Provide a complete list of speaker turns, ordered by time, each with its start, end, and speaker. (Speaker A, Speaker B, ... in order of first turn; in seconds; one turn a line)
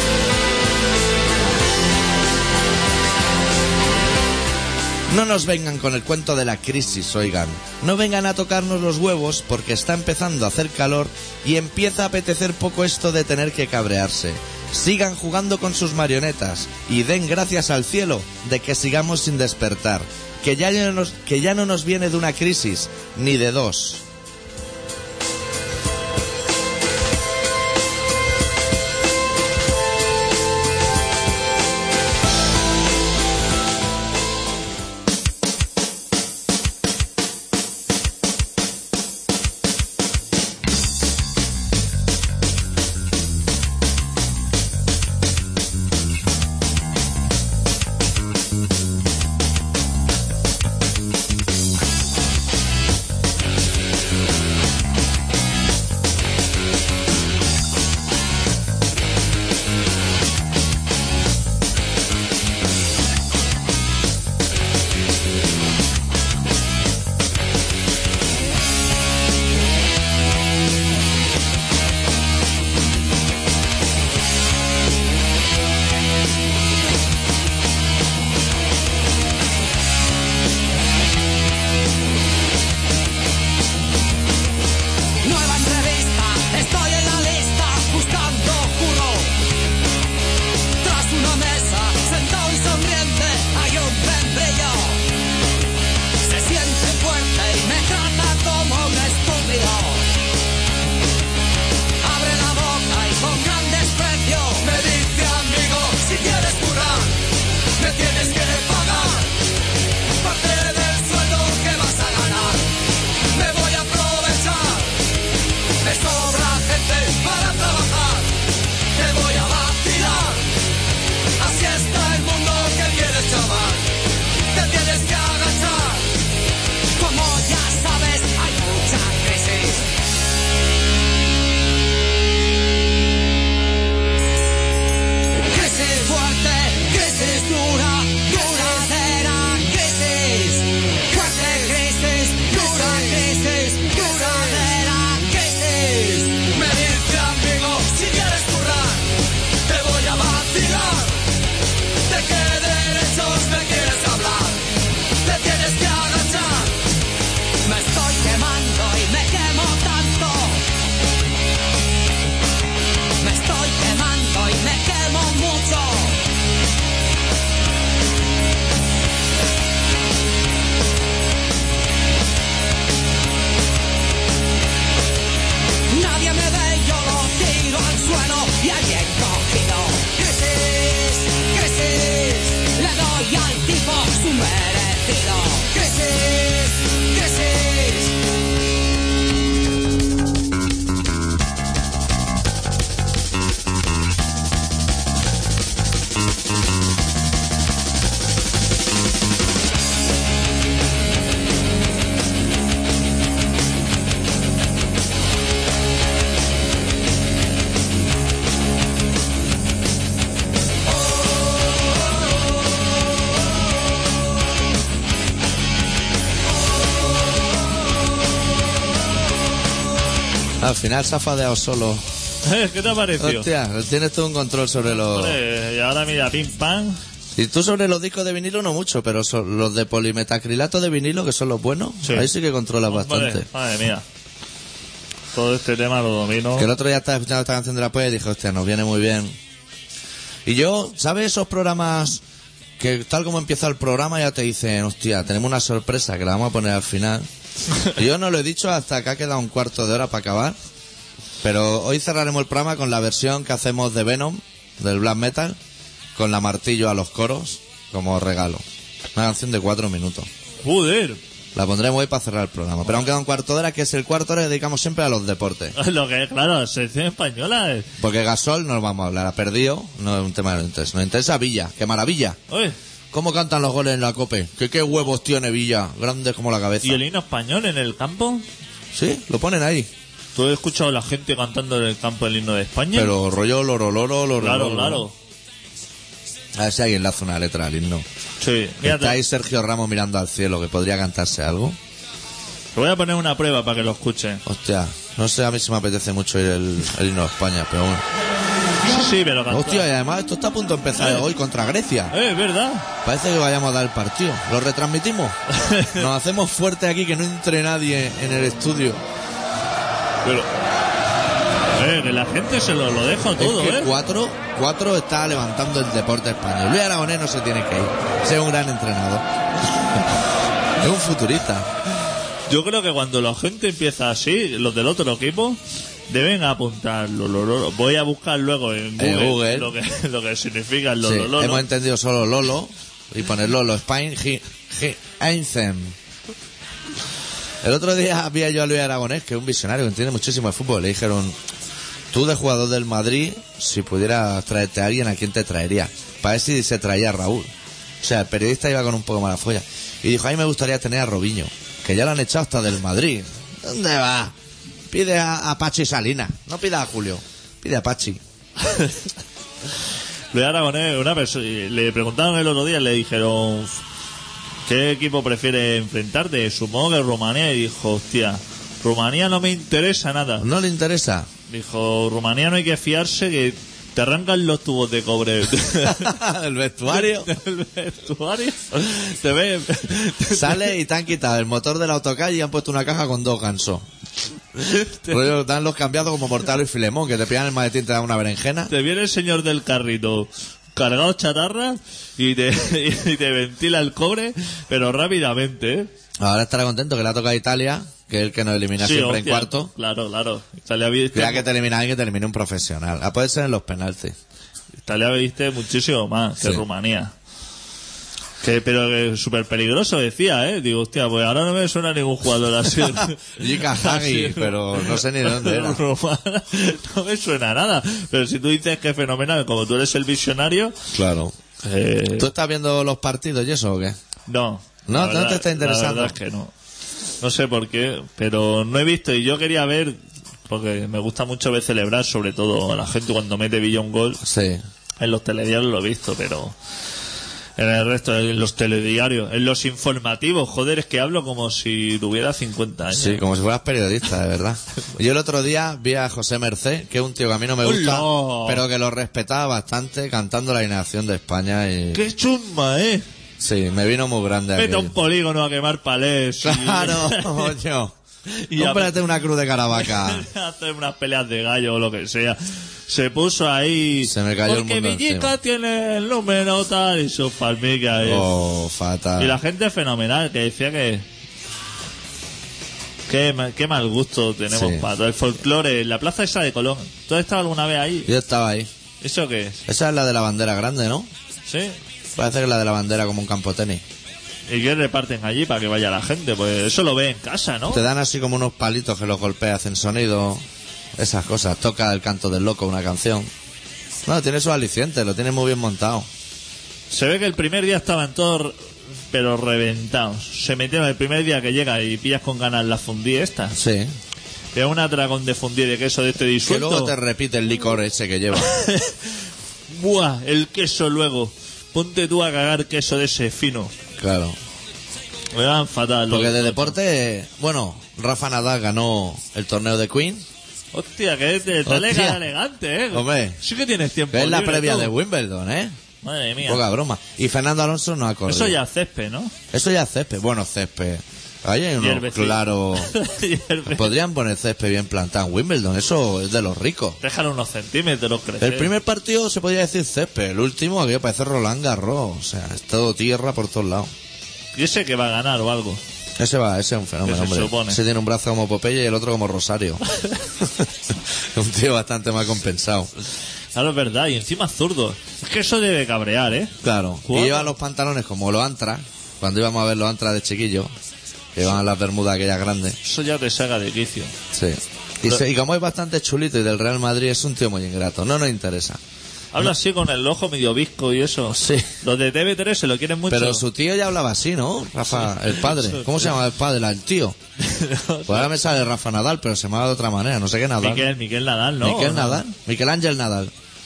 Speaker A: 5.1-24.0
Speaker B: 85.2-89.4
Speaker B: 90.8-95.1
Speaker B: 96.2-100.1
Speaker B: 102.0-107.2
Speaker B: 107.8-109.3
Speaker B: 110.2-112.7
Speaker B: 113.3-115.0
Speaker B: 115.8-118.4
Speaker B: 118.9-120.5
Speaker B: 121.4-123.9
Speaker B: 124.5-126.2
Speaker B: 127.0-129.9
Speaker B: 135.5-151.2
Speaker B: 152.1-156.8
Speaker B: 157.6-160.7
Speaker B: 163.2-166.2
Speaker B: 175.9-188.2
Speaker A: 220.6-222.1
Speaker C: 222.4-223.5
Speaker A: 223.2-225.4
Speaker C: 224.9-227.0
Speaker A: 227.3-233.5
Speaker C: 232.0-232.3
Speaker C: 232.9-234.1
Speaker C: 235.3-236.7
Speaker A: 236.6-239.4
Speaker A: 240.5-242.2
Speaker A: 242.8-247.3
Speaker A: 247.8-250.6
Speaker A: 251.4-255.6
Speaker A: 256.1-258.6
Speaker A: 259.1-260.3
Speaker C: 260.6-261.2
Speaker A: 261.6-265.8
Speaker C: 265.8-267.9
Speaker A: 268.0-272.4
Speaker C: 272.5-272.8
Speaker A: 273.1-277.0
Speaker C: 276.8-278.5
Speaker A: 278.9-279.9
Speaker C: 280.4-283.1
Speaker A: 282.9-285.1
Speaker C: 284.4-285.1
Speaker A: 286.6-288.1
Speaker C: 288.4-289.2
Speaker A: 288.8-291.8
Speaker C: 292.8-294.4
Speaker A: 294.5-298.0
Speaker C: 298.8-299.9
Speaker A: 299.5-302.1
Speaker C: 302.1-302.9
Speaker A: 303.0-305.4
Speaker C: 305.5-306.1
Speaker A: 305.9-309.0
Speaker C: 311.7-313.9
Speaker A: 313.4-319.2
Speaker A: 320.8-321.7
Speaker C: 322.5-331.7
Speaker A: 329.0-329.7
Speaker A: 331.0-336.0
Speaker A: 337.6-341.4
Speaker A: 342.1-347.5
Speaker A: 348.0-354.3
Speaker A: 354.9-358.2
Speaker C: 358.6-359.1
Speaker C: 360.3-363.8
Speaker C: 364.7-370.5
Speaker A: 370.4-371.3
Speaker C: 371.5-376.2
Speaker A: 375.9-377.3
Speaker C: 376.9-380.7
Speaker A: 380.3-383.9
Speaker C: 384.6-385.2
Speaker A: 385.1-388.7
Speaker C: 388.7-395.9
Speaker A: 396.2-399.7
Speaker C: 398.8-401.5
Speaker A: 401.1-404.2
Speaker C: 404.8-407.1
Speaker C: 408.4-420.8
Speaker A: 413.3-415.8
Speaker A: 420.9-421.4
Speaker C: 421.6-422.3
Speaker A: 422.2-424.0
Speaker C: 424.3-426.5
Speaker A: 424.9-426.2
Speaker C: 427.2-434.2
Speaker A: 434.2-434.6
Speaker C: 435.0-436.6
Speaker C: 437.6-443.2
Speaker A: 442.9-452.0
Speaker C: 447.6-448.6
Speaker C: 451.9-453.1
Speaker A: 453.4-454.9
Speaker C: 454.6-457.6
Speaker A: 456.4-457.9
Speaker C: 458.3-459.0
Speaker A: 458.5-460.3
Speaker C: 459.7-468.3
Speaker A: 464.1-465.4
Speaker A: 468.0-469.4
Speaker C: 469.2-471.1
Speaker C: 473.1-478.1
Speaker A: 474.5-474.9
Speaker A: 478.1-478.7
Speaker C: 479.0-479.6
Speaker A: 479.7-481.1
Speaker C: 481.5-481.8
Speaker A: 482.2-483.8
Speaker C: 484.5-487.8
Speaker A: 487.7-490.4
Speaker A: 491.0-493.3
Speaker A: 494.1-496.1
Speaker C: 496.9-498.6
Speaker C: 499.1-503.6
Speaker A: 503.5-503.9
Speaker C: 504.5-506.9
Speaker A: 506.4-508.5
Speaker C: 508.4-513.7
Speaker A: 514.0-514.4
Speaker C: 515.3-516.8
Speaker A: 516.1-520.2
Speaker C: 520.7-524.9
Speaker A: 521.7-522.2
Speaker A: 522.9-523.4
Speaker A: 524.1-525.7
Speaker C: 526.0-526.6
Speaker A: 526.4-528.6
Speaker C: 528.3-529.3
Speaker A: 529.5-532.9
Speaker C: 531.8-533.9
Speaker A: 533.7-537.0
Speaker C: 537.0-538.7
Speaker A: 538.4-543.9
Speaker C: 544.5-545.8
Speaker A: 546.2-549.8
Speaker C: 547.0-547.8
Speaker A: 550.4-552.9
Speaker C: 553.5-557.5
Speaker A: 556.6-560.7
Speaker A: 561.4-562.8
Speaker C: 562.8-564.1
Speaker A: 564.3-568.8
Speaker C: 569.3-573.5
Speaker A: 571.4-571.7
Speaker A: 573.1-577.2
Speaker C: 575.1-576.0
Speaker C: 577.4-578.4
Speaker A: 578.1-580.9
Speaker C: 580.6-582.2
Speaker A: 581.6-583.3